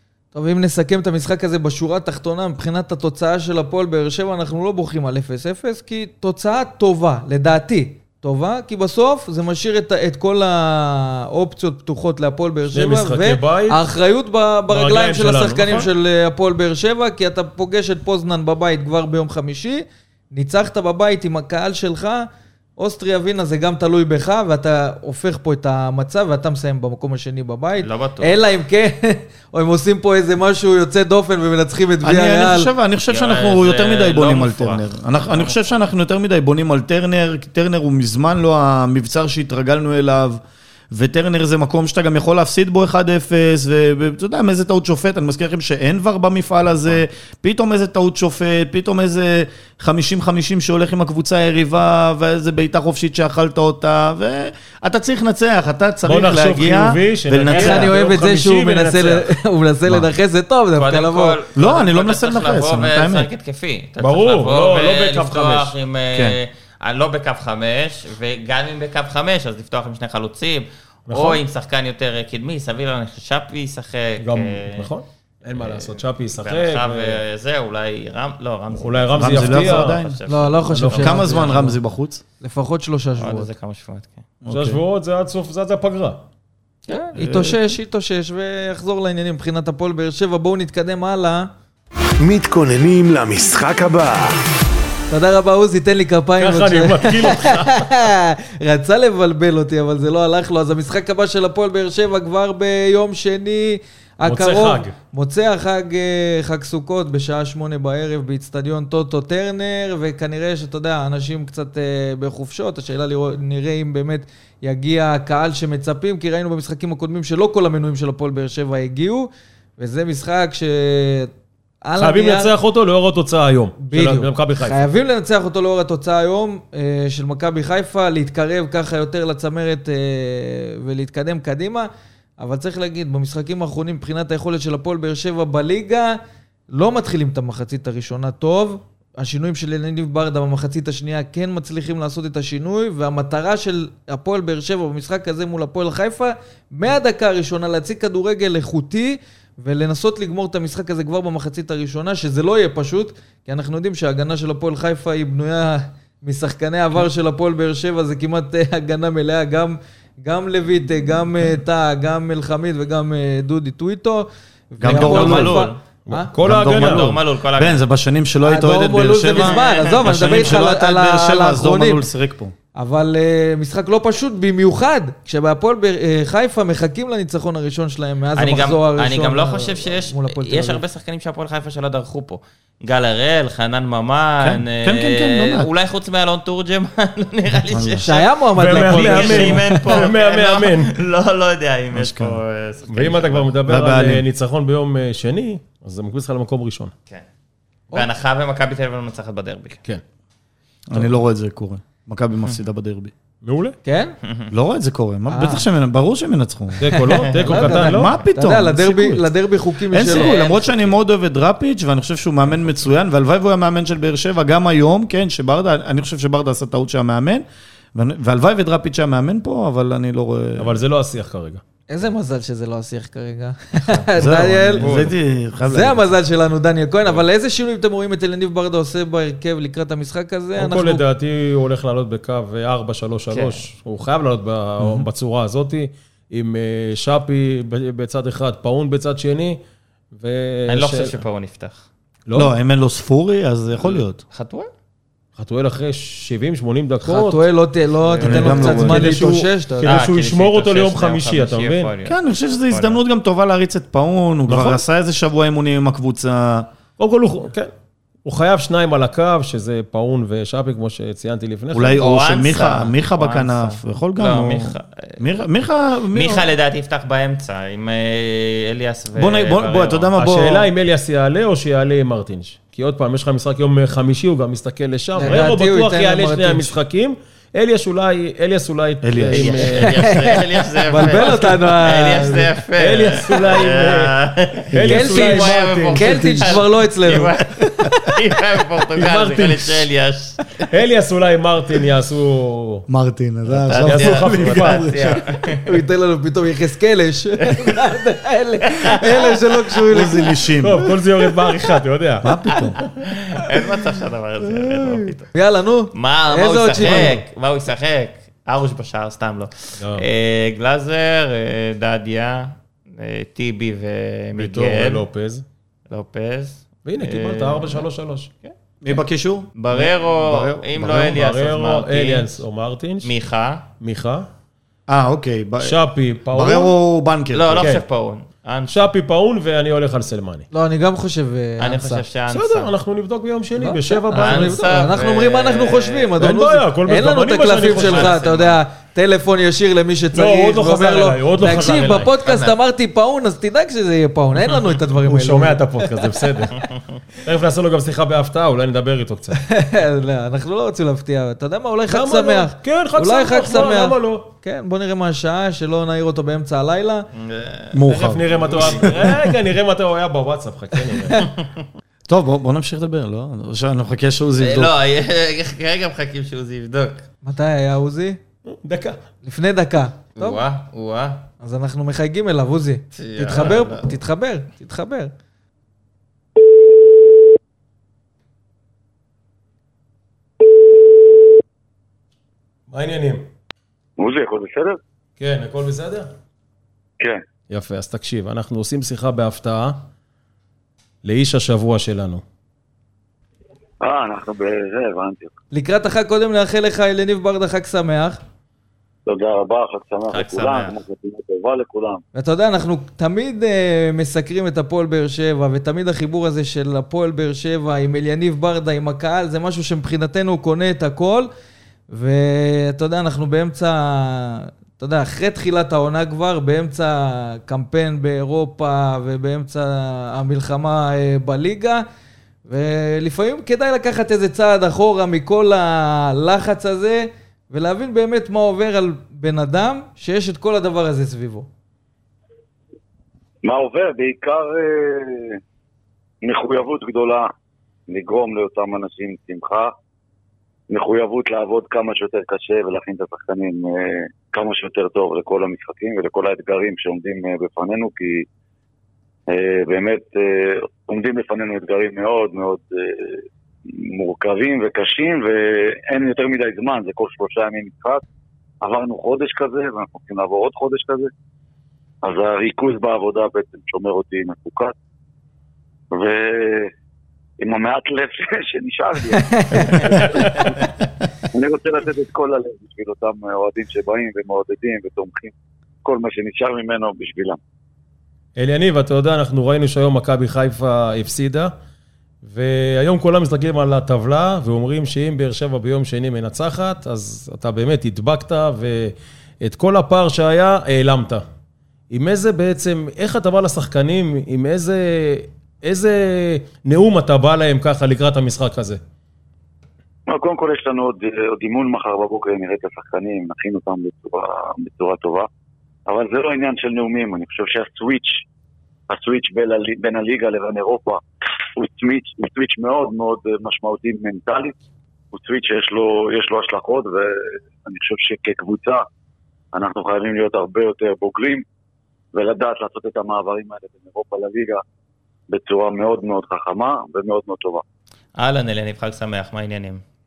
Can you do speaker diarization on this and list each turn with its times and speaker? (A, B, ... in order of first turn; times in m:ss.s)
0:00.3-0:32.7 A
0:12.7-0:13.8 B
0:14.7-0:15.9 B
0:27.8-0:28.4 C
0:32.0-0:57.9 D
0:33.1-0:35.7 C
0:56.0-0:59.3 B
0:57.5-1:01.4 A
1:00.8-1:14.9 C
1:01.6-1:03.3 D
1:04.0-1:05.7 B
1:06.1-1:06.4 D
1:11.1-1:11.4 B
1:14.2-1:17.2 B
1:15.5-1:20.6 C
1:18.7-1:20.0 B
1:19.2-1:20.2 D
1:20.3-1:21.8 A
1:20.7-1:21.4 B
1:20.9-1:22.2 D
1:22.4-1:23.5 A
1:23.2-1:24.3 C
1:24.4-1:24.8 D
1:24.5-1:26.2 B
1:26.9-1:31.5 A
1:27.2-1:27.6 D
1:32.2-1:34.4 E
1:35.1-2:01.3 A
1:36.4-1:37.9 B
1:44.2-1:45.0 B
2:01.8-2:02.5 A
2:02.0-2:04.8 B
2:03.8-2:11.9 A
2:12.4-2:16.2 A
2:16.7-2:46.3 A
2:44.8-2:45.7 D
2:44.9-2:45.7 C
2:46.0-2:47.1 B
2:46.4-2:52.5 D
2:46.6-2:47.8 C
2:48.4-2:52.0 A
2:49.3-2:50.6 C
2:52.8-3:00.8 A
2:58.4-3:13.5 C
3:04.4-3:05.7 D
3:07.7-3:08.0 D
3:08.0-3:09.8 A
3:08.6-3:10.9 B
3:11.9-3:12.4 D
3:12.9-3:16.9 B
3:13.6-3:14.2 D
3:17.9-3:19.8 C
3:20.9-3:23.1 D
3:23.4-3:23.8 B
3:23.8-3:24.2 A
3:24.2-3:24.5 C
3:24.5-3:26.9 D
3:25.3-3:25.6 A
3:26.8-3:28.1 B
3:27.1-3:28.2 C
3:27.4-3:30.4 A
3:27.4-3:29.3 D
3:29.9-3:37.4 D
3:30.1-3:30.9 C
3:37.9-3:40.8 D
3:40.6-3:41.6 B
3:41.9-3:45.0 A
3:43.8-3:44.1 C
3:44.2-3:46.2 D
3:44.7-3:45.1 C
3:45.6-3:51.0 A
3:50.6-3:59.6 B
3:53.3-3:53.6 C
3:54.8-3:55.1 D
4:00.1-4:01.2 B
4:00.7-4:01.8 C
4:02.3-4:02.5 B
4:02.3-4:04.2 D
4:03.9-4:04.7 C
4:05.4-4:07.5 B
4:07.0-4:10.0 A
4:08.0-4:08.8 C
4:08.2-4:09.2 D
4:08.3-4:11.9 B
4:09.8-4:13.0 C
4:12.0-4:16.7 D
4:14.5-4:14.8 B
4:17.0-4:17.7 B
4:18.2-4:22.0 B
4:21.7-4:26.4 D
4:22.0-4:25.3 C
4:26.1-4:30.1 C
4:29.1-4:30.7 D
4:30.2-4:40.1 B
4:35.2-4:36.8 A
4:39.0-4:39.7 D
4:39.3-4:50.5 C
4:39.7-4:42.5 A
4:42.8-4:44.1 B
4:44.7-4:46.6 B
4:44.8-4:47.4 A
4:49.0-4:49.9 B
4:50.7-4:52.8 B
4:52.9-4:55.2 D
4:53.6-4:55.8 C
4:53.8-4:55.2 B
4:54.6-5:00.5 A
4:57.5-4:57.8 C
4:59.9-5:01.0 D
5:00.6-5:02.3 B
5:02.2-5:02.8 D
5:02.5-5:05.3 C
5:05.3-5:07.2 A
5:05.9-5:15.0 C
5:09.8-5:10.0 B
5:14.4-5:15.4 B
5:15.9-5:17.9 C
5:16.8-5:18.3 B
5:18.4-5:18.9 C
5:18.8-5:21.2 D
5:19.6-5:22.4 C
5:21.1-5:23.1 B
5:23.0-5:23.7 C
5:23.8-5:24.3 B
5:24.9-5:27.7 D
5:25.6-5:26.7 B
5:27.3-5:28.9 C
5:28.7-5:30.5 B
5:30.5-5:32.0 A
5:31.6-5:32.7 C
5:32.3-5:34.8 B
5:33.6-5:46.2 A
5:34.1-5:36.1 C
5:36.2-5:38.2 B
5:37.6-5:38.6 C
5:40.1-5:42.1 B
5:42.2-5:42.6 C
5:45.0-5:49.4 B
5:49.4-5:57.1 A
5:51.9-5:54.2 B
5:57.1-5:57.8 C
5:57.7-5:59.1 D
5:57.8-6:01.3 B
5:58.4-5:59.0 C
6:01.1-6:01.6 C
6:02.1-6:04.7 D
6:04.4-6:07.1 C
6:07.2-6:08.2 A
6:08.4-6:09.0 B
6:09.2-6:10.4 A
6:10.2-6:11.2 C
6:11.4-6:15.1 A
6:12.9-6:13.8 C
6:22.7-6:23.2 B
6:24.0-6:24.8 F
6:25.2-6:26.1 B
6:27.5-6:29.8 B
6:31.0-6:32.2 B
6:33.8-6:35.3 F
6:35.5-6:38.2 A
6:39.0-6:42.0 F
6:40.1-6:40.7 C
6:42.1-6:51.3 A
6:51.9-7:01.8 A
7:02.5-7:11.5 A
7:13.4-7:15.4 F
7:16.2-7:17.3 F
7:17.9-7:19.7 F
7:20.7-7:28.3 F
7:29.3-7:33.2 F
7:33.8-7:38.0 F
7:38.6-7:41.1 F
7:42.0-7:44.7 F
7:45.9-7:46.7 F
7:47.4-7:50.7 F
7:49.1-7:50.2 A
7:51.3-7:55.3 F
7:55.8-7:57.4 F
7:58.4-8:01.5 B
8:02.2-8:11.2 B
8:11.9-8:18.8 B
8:20.1-8:25.3 F
8:25.9-8:28.2 F
8:28.9-8:31.0 F
8:31.5-8:34.5 F
8:35.1-8:38.8 F
8:39.5-8:41.4 F
8:42.1-8:44.6 F
8:45.3-8:47.6 F
8:48.2-8:49.8 C